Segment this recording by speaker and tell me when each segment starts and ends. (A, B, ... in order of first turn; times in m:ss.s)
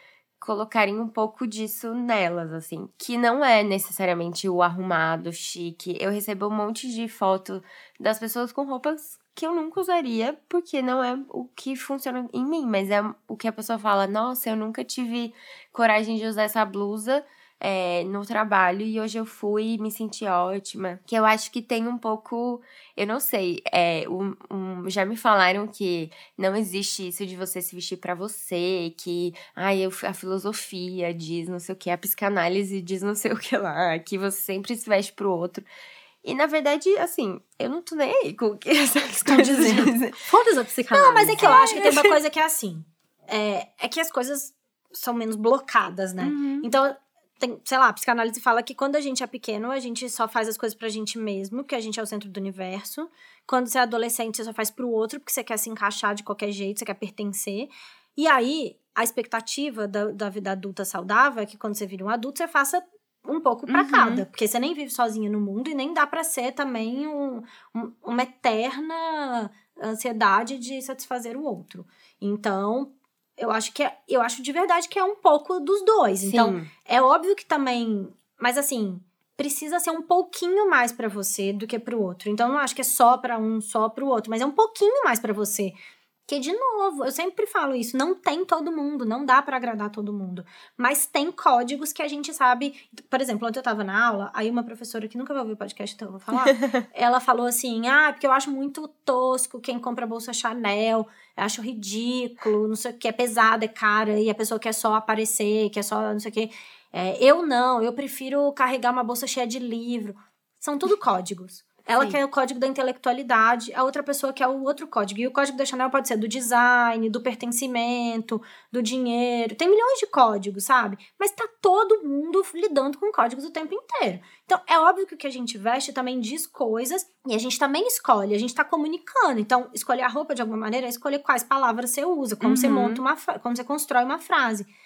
0:00.4-0:35.6 A
0:36.2-0:40.2 A
0:39.3-0:41.8 B
0:40.9-1:25.7 C
0:41.4-0:42.2 A
0:46.2-0:46.7 A
1:03.7-1:04.2 A
1:16.2-1:16.7 A
1:26.3-2:14.7 C
1:36.4-1:36.8 A
2:12.4-2:13.0 A